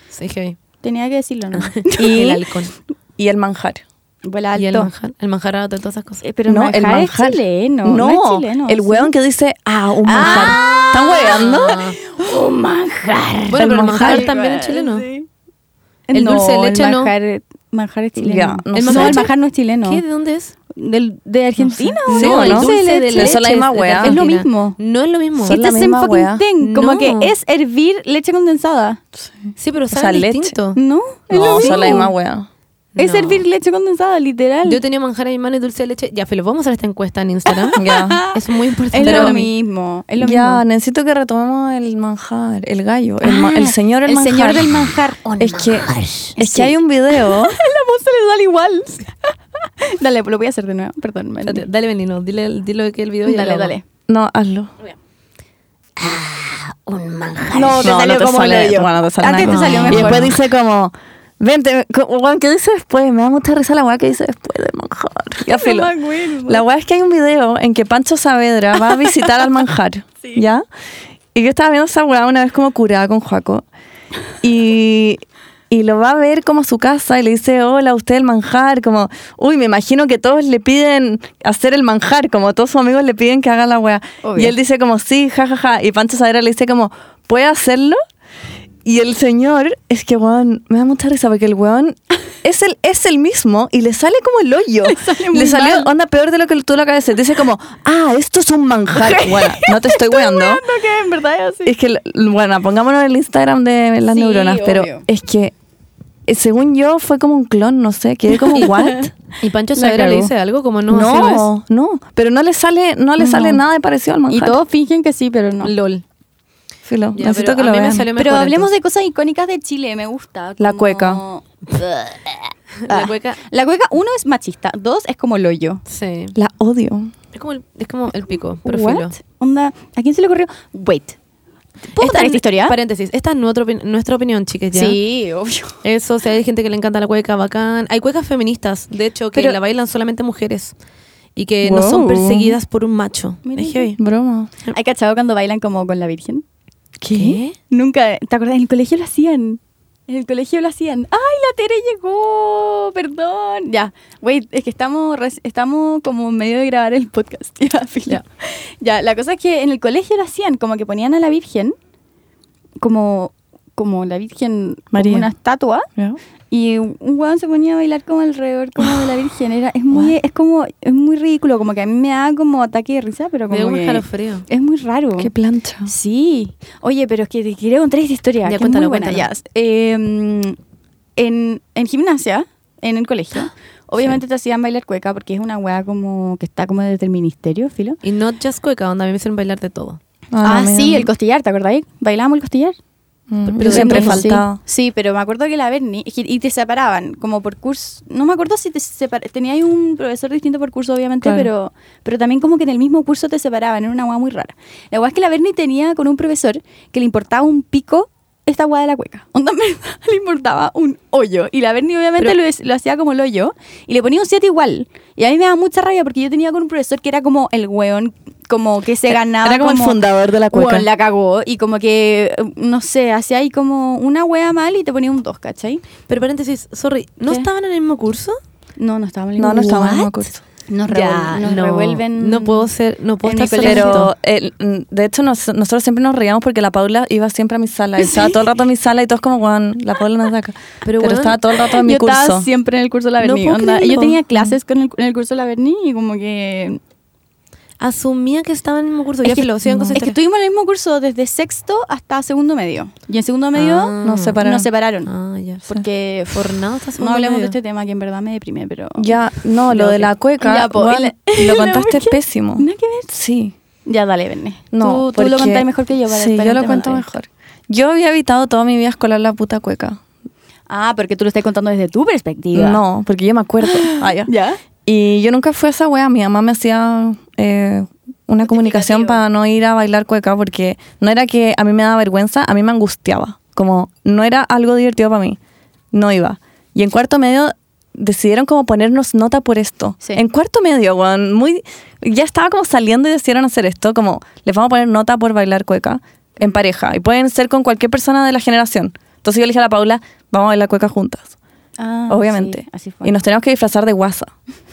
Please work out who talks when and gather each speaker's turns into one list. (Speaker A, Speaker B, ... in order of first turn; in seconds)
Speaker A: 0.1-0.6, 1.5-2.7, 4.5-6.2, 10.2-12.0, 13.5-15.1, 16.1-17.1, 18.7-20.5, 22.1-25.6, 26.6-27.3, 29.6-30.8, 31.3-31.9, 33.0-33.4, 34.6-39.5, 45.4-46.3, 51.4-53.7, 56.0-57.9, 59.4-60.3, 109.4-111.5, 115.6-116.0, 117.1-118.7, 122.8-123.4, 125.9-126.3, 127.3-129.1, 132.0-135.0, 135.8-140.7, 141.3-143.9, 147.1-147.5, 173.5-174.4, 178.4-179.3, 188.0-190.0, 193.5-194.4, 226.1-228.4, 230.9-234.1, 240.8-241.4, 243.2-244.2, 247.8-250.1, 253.5-254.4, 255.1-255.7, 256.3-257.6
Speaker B: 0.8-2.4, 4.2-4.9, 6.2-9.1, 10.0-15.3, 16.1-20.0, 20.7-23.4, 24.0-24.8, 25.4-29.0, 30.7-32.1, 33.0-34.8, 37.5-38.4, 38.9-40.6, 43.2-45.6, 46.3-51.6, 53.2-53.8, 57.5-60.3, 65.4-66.6, 84.2-84.5, 94.8-95.9, 98.9-101.7, 104.0-105.0, 108.4-109.1, 109.8-110.3, 113.2-113.6, 114.3-115.7, 118.2-125.8, 128.6-131.2, 131.9-132.8, 134.7-135.8, 143.4-143.9, 144.7-146.4, 147.7-161.8, 162.8-165.9, 166.5-175.3, 175.8-180.6, 181.2-188.0, 190.4-192.8, 193.6-225.8, 228.8-232.7, 233.2-234.1, 238.0-238.4, 241.7-246.8, 249.2-255.1, 255.7-259.2, 259.7-263.1, 263.9-267.1, 270.7-272.8, 273.6-274.6, 278.4-279.2, 301.8-303.1
Speaker C: 2.0-2.4, 3.2-3.8, 6.5-11.8, 13.6-14.3, 18.2-19.2, 21.6-24.2, 25.4-26.4, 29.2-30.5, 31.3-32.5, 37.8-38.2, 39.0-39.4, 40.2-44.8, 45.4-47.6, 54.1-54.7, 57.5-65.9, 66.5-70.6, 71.3-73.6, 74.4-88.0, 88.8-100.6, 101.6-105.5, 106.3-109.1, 110.9-114.6, 116.8-118.1, 120.6-121.2, 126.3-127.1, 141.6-142.6, 144.0-144.5, 147.0-147.4, 164.9-165.3, 175.2-175.9, 190.3-191.1, 193.3-194.6, 201.2-201.5, 219.1-220.9, 229.4-230.4, 233.6-242.5, 249.7-250.0, 254.0-254.7, 259.0-263.5, 264.7-270.0, 272.5-274.3, 274.9-285.4, 285.9-301.3, 302.1-304.3